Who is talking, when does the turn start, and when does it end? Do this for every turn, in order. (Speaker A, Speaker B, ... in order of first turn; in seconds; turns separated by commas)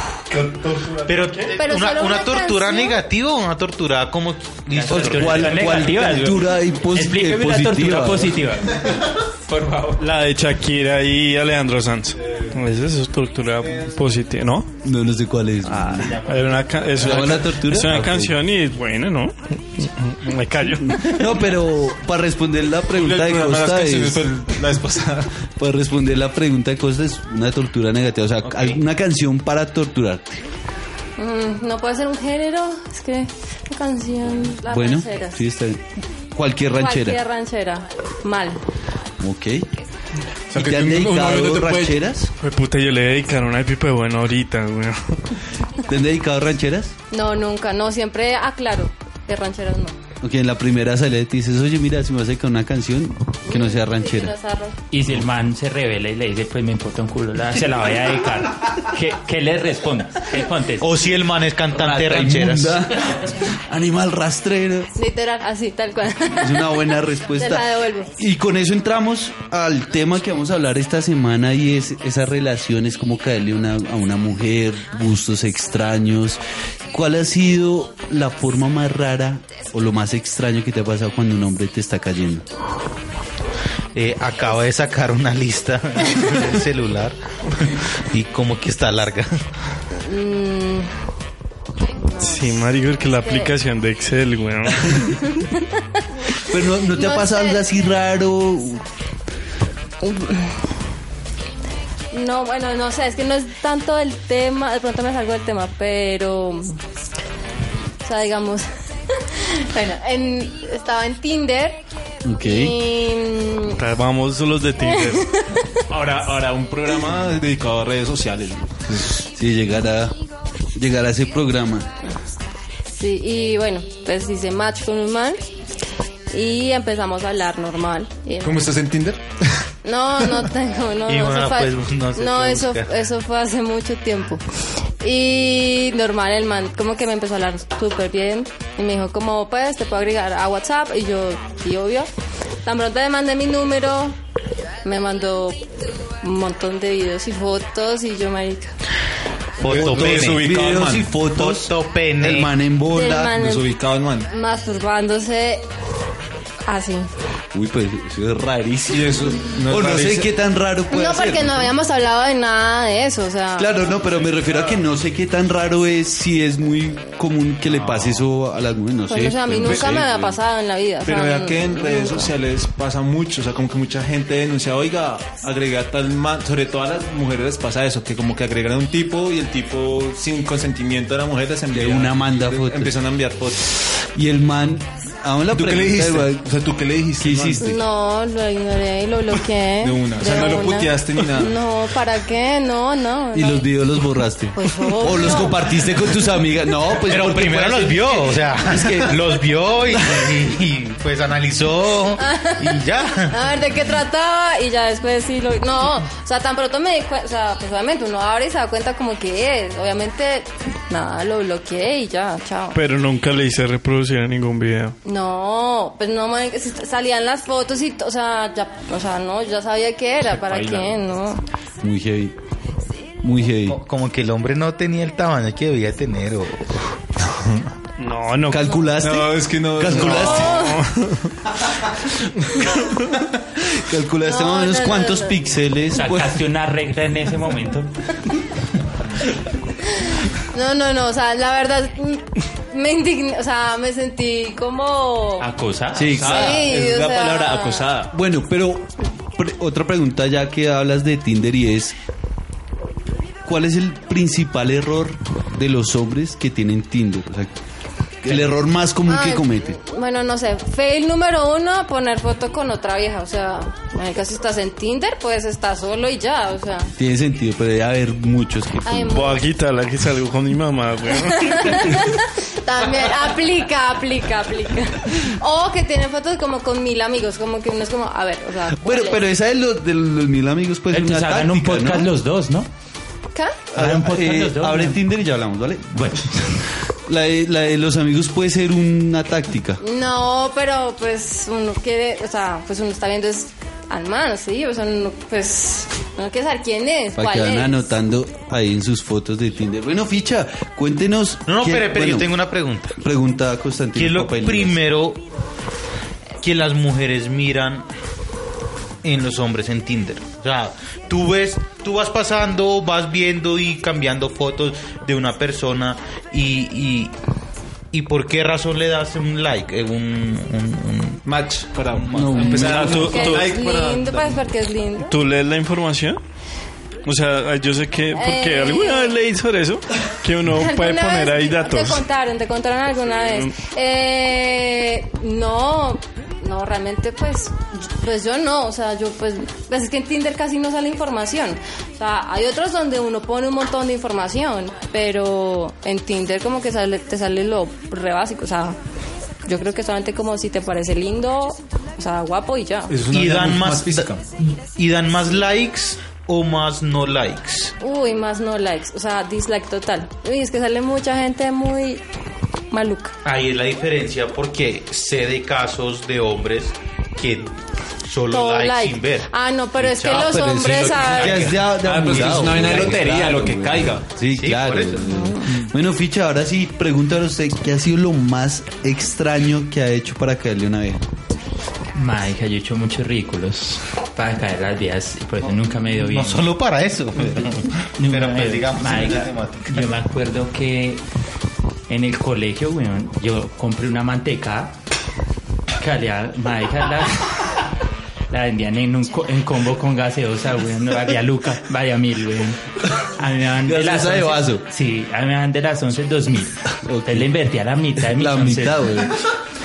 Speaker A: 0.3-1.5, Speaker B: 1.1-6.0, Speaker C: 1.5-3.0, Speaker D: 4.7-10.0, Speaker E: 4.9-8.4, Speaker A: 10.0-14.7, Speaker E: 14.8-16.2, Speaker A: 15.8-21.4, Speaker B: 16.2-16.5, Speaker E: 17.0-18.4, Speaker E: 20.9-24.3, Speaker F: 22.9-25.3, Speaker E: 25.6-30.4, Speaker B: 28.4-28.8, Speaker C: 31.2-35.4, Speaker E: 34.6-37.2, Speaker C: 36.7-38.6, Speaker E: 39.2-39.7, Speaker F: 40.5-42.0, Speaker E: 40.5-42.3, Speaker A: 42.4-45.1, Speaker E: 45.9-46.9, Speaker C: 47.1-50.0, Speaker E: 50.2-54.3, Speaker C: 53.5-54.8, Speaker D: 54.9-61.0, Speaker B: 60.8-62.8, Speaker E: 61.7-64.9, Speaker C: 65.0-68.1, Speaker E: 66.4-67.7, Speaker E: 68.2-76.4, Speaker E: 76.9-82.4, Speaker B: 83.9-89.4, Speaker C: 90.0-90.9, Speaker C: 91.9-93.5, Speaker A: 92.2-95.2, Speaker C: 95.1-95.8, Speaker E: 96.4-98.8, Speaker C: 96.9-97.6, Speaker C: 100.0-100.5, Speaker C: 102.1-106.8, Speaker C: 108.0-108.7, Speaker C: 109.3-111.8, Speaker E: 112.2-112.8, Speaker C: 112.4-113.8, Speaker A: 113.7-115.3, Speaker C: 114.8-115.8, Speaker F: 115.9-119.2, Speaker E: 119.2-120.2, Speaker E: 120.8-121.9, Speaker C: 123.0-125.4, Speaker C: 126.3-128.6, Speaker F: 128.4-129.6, Speaker C: 129.8-134.4, Speaker B: 131.1-132.9, Speaker C: 135.0-142.1, Speaker C: 142.6-144.2, Speaker C: 144.8-145.6, Speaker C: 146.2-148.7, Speaker B: 149.6-152.5, Speaker F: 149.6-151.1, Speaker E: 149.6-153.4, Speaker C: 152.9-153.7, Speaker F: 153.3-154.3, Speaker C: 154.3-155.6, Speaker C: 156.7-157.1, Speaker E: 157.5-161.7, Speaker F: 158.9-160.3, Speaker C: 160.9-163.8, Speaker E: 163.6-170.3, Speaker C: 169.1-172.3, Speaker F: 169.6-170.3, Speaker F: 171.0-183.7, Speaker E: 181.7-183.0, Speaker E: 184.0-186.4, Speaker F: 185.5-187.7, Speaker E: 187.2-187.8, Speaker C: 187.6-193.7, Speaker F: 189.8-191.6, Speaker E: 193.3-199.4, Speaker C: 194.5-196.0, Speaker B: 197.0-203.5, Speaker E: 199.9-200.4, Speaker C: 202.2-212.8, Speaker A: 212.7-214.9, Speaker C: 215.0-221.4, Speaker D: 220.5-220.8, Speaker E: 221.8-222.3, Speaker E: 223.2-223.8, Speaker B: 223.7-226.8, Speaker F: 227.2-227.7, Speaker A: 228.0-228.8, Speaker E: 228.5-230.6, Speaker F: 229.0-230.7, Speaker C: 230.0-230.8, Speaker A: 230.4-231.2, Speaker E: 233.6-236.4, Speaker C: 234.2-235.4, Speaker D: 235.9-237.9, Speaker C: 239.9-245.5, Speaker D: 245.4-246.2, Speaker E: 245.9-246.7, Speaker F: 246.0-248.1, Speaker C: 246.2-247.9, Speaker E: 248.1-251.9, Speaker E: 253.4-257.5, Speaker E: 258.2-259.8, Speaker C: 259.1-266.9, Speaker E: 267.0-269.3, Speaker C: 268.8-269.4, Speaker A: 269.1-272.1, Speaker C: 271.3-279.2, Speaker E: 278.7-282.1, Speaker D: 280.9-282.7, Speaker E: 283.7-286.2, Speaker D: 283.8-285.0, Speaker D: 285.9-286.6, Speaker E: 287.1-289.8, Speaker C: 289.8-297.8, Speaker E: 297.1-302.3, Speaker B: 301.5-303.0, Speaker E: 303.0-304.8, Speaker B: 303.9-305.2, Speaker B: 306.4-307.9, Speaker B: 309.0-317.1, Speaker B: 317.9-321.2, Speaker F: 321.2-324.4, Speaker B: 321.9-322.6, Speaker E: 322.1-323.1, Speaker A: 322.4-323.5, Speaker C: 322.8-325.1, Speaker A: 325.0-326.2, Speaker A: 327.0-332.0, Speaker C: 328.1-329.1, Speaker C: 330.5-348.8, Speaker A: 333.2-333.5, Speaker C: 349.4-352.9, Speaker F: 352.9-354.2, Speaker B: 353.1-354.1, Speaker B: 354.6-357.7, Speaker C: 357.8-362.0, Speaker C: 362.7-363.1, Speaker B: 363.2-367.5, Speaker B: 368.0-369.3, Speaker C: 368.3-371.5, Speaker B: 369.8-370.4, Speaker E: 369.9-381.0, Speaker F: 370.8-374.1, Speaker B: 371.1-373.0, Speaker B: 374.3-375.3, Speaker D: 381.9-386.5, Speaker B: 385.9-389.9, Speaker D: 388.0-391.0, Speaker D: 391.9-394.7, Speaker D: 395.8-397.6, Speaker D: 398.3-402.6, Speaker D: 403.1-409.0, Speaker E: 403.6-404.6, Speaker E: 406.8-407.3, Speaker E: 408.0-409.2